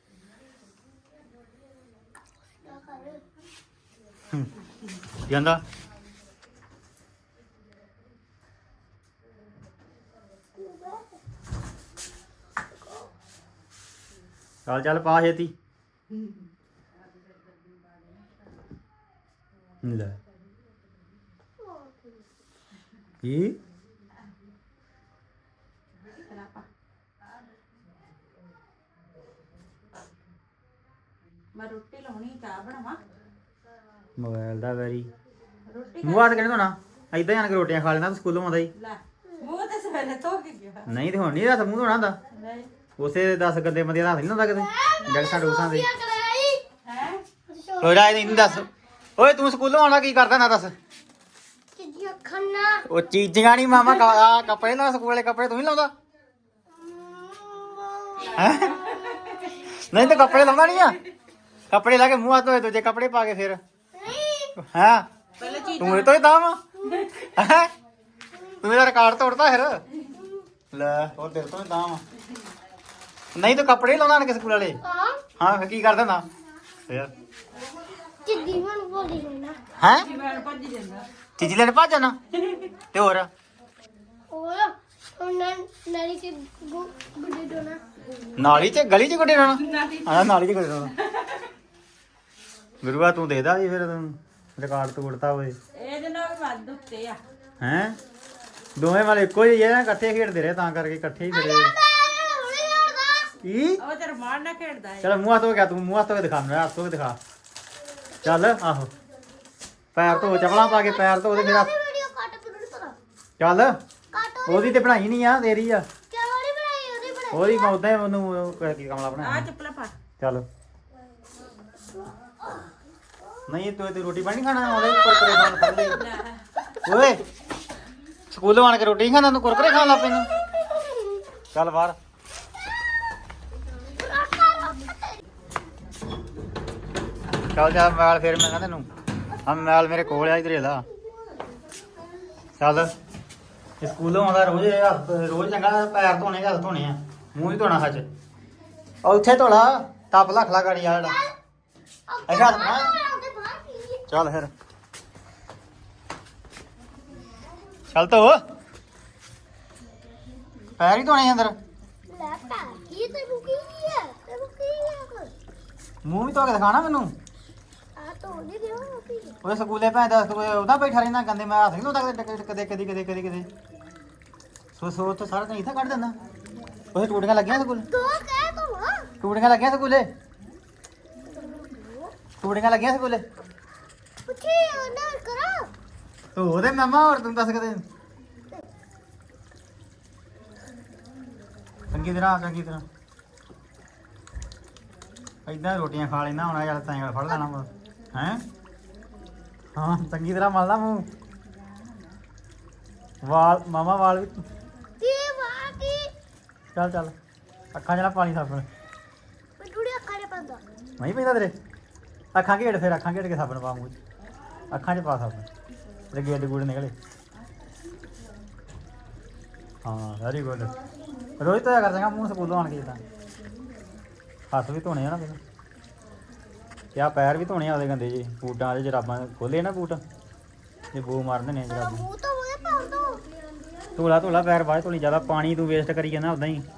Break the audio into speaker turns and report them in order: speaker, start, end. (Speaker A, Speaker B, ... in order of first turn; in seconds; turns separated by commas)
Speaker A: 2.6-3.2, Speaker B: 5.2-5.6, Speaker A: 10.6-11.0, Speaker B: 14.7-15.5, Speaker B: 19.8-20.2, Speaker A: 21.6-22.1, Speaker B: 23.2-23.6, Speaker C: 26.0-26.7, Speaker C: 31.5-33.0, Speaker B: 34.2-35.1, Speaker C: 35.7-36.4, Speaker B: 36.0-38.7, Speaker C: 38.8-40.9, Speaker B: 40.9-42.2, Speaker C: 42.3-42.7, Speaker B: 43.0-45.9, Speaker A: 44.7-46.6, Speaker C: 46.9-47.2, Speaker A: 47.5-48.6, Speaker B: 47.8-50.7, Speaker A: 51.8-52.9, Speaker B: 52.9-55.9, Speaker A: 53.8-54.3, Speaker A: 56.7-60.4, Speaker C: 58.2-59.6, Speaker B: 58.3-58.8, Speaker B: 59.9-61.0, Speaker B: 61.7-63.6, Speaker A: 63.9-64.5, Speaker B: 64.6-65.0, Speaker C: 65.4-66.2, Speaker A: 65.4-65.9, Speaker B: 65.8-66.6, Speaker B: 67.3-67.7, Speaker A: 68.3-68.6, Speaker B: 68.6-69.8, Speaker A: 70.1-70.5, Speaker B: 70.7-72.0, Speaker B: 73.3-74.8, Speaker A: 74.8-75.2, Speaker B: 75.4-76.2, Speaker B: 76.9-77.1, Speaker A: 78.2-79.6, Speaker B: 79.8-80.1, Speaker C: 80.0-81.1, Speaker B: 81.4-82.2, Speaker C: 82.4-82.7, Speaker B: 82.9-83.3, Speaker A: 84.3-87.8, Speaker B: 88.4-90.9, Speaker C: 89.6-90.3, Speaker B: 92.8-95.6, Speaker C: 95.7-97.2, Speaker B: 97.6-98.0, Speaker B: 98.8-101.7, Speaker A: 101.3-103.3, Speaker B: 103.4-103.8, Speaker C: 103.8-105.1, Speaker B: 105.0-107.2, Speaker A: 108.2-108.5, Speaker B: 108.2-108.9, Speaker B: 109.9-111.7, Speaker A: 110.0-113.0, Speaker B: 113.4-113.7, Speaker A: 114.1-114.8, Speaker B: 114.5-115.8, Speaker A: 116.1-117.7, Speaker B: 117.3-119.5, Speaker C: 119.2-119.9, Speaker B: 120.2-120.5, Speaker B: 123.5-126.0, Speaker A: 124.6-126.0, Speaker C: 125.9-126.4, Speaker B: 126.8-127.2, Speaker B: 128.3-130.3, Speaker A: 129.5-131.3, Speaker B: 131.5-132.0, Speaker A: 133.8-135.2, Speaker B: 137.5-138.9, Speaker B: 139.4-140.8, Speaker A: 140.0-140.3, Speaker B: 142.6-142.9, Speaker B: 143.8-148.1, Speaker B: 149.0-151.2, Speaker A: 151.0-151.3, Speaker A: 152.1-154.1, Speaker B: 152.3-152.9, Speaker B: 154.1-154.5, Speaker B: 157.9-158.4, Speaker B: 160.8-161.5, Speaker A: 162.1-165.3, Speaker B: 166.0-167.1, Speaker A: 167.9-169.4, Speaker B: 169.4-173.5, Speaker B: 174.8-176.2, Speaker B: 176.9-177.9, Speaker A: 177.7-179.1, Speaker B: 179.2-180.1, Speaker A: 181.2-182.1, Speaker B: 182.4-183.2, Speaker A: 184.2-185.7, Speaker B: 186.3-187.8, Speaker B: 191.9-192.8, Speaker B: 195.4-198.4, Speaker B: 199.8-201.1, Speaker B: 203.2-204.4, Speaker A: 205.0-206.1, Speaker B: 206.7-207.1, Speaker B: 207.7-208.7, Speaker A: 209.6-210.6, Speaker B: 211.0-211.5, Speaker B: 212.3-213.9, Speaker B: 214.7-215.4, Speaker B: 216.1-216.9, Speaker B: 219.8-220.7, Speaker B: 221.4-223.0, Speaker B: 224.5-225.4, Speaker B: 226.9-230.0, Speaker B: 230.9-232.0, Speaker A: 231.7-233.2, Speaker B: 233.9-236.6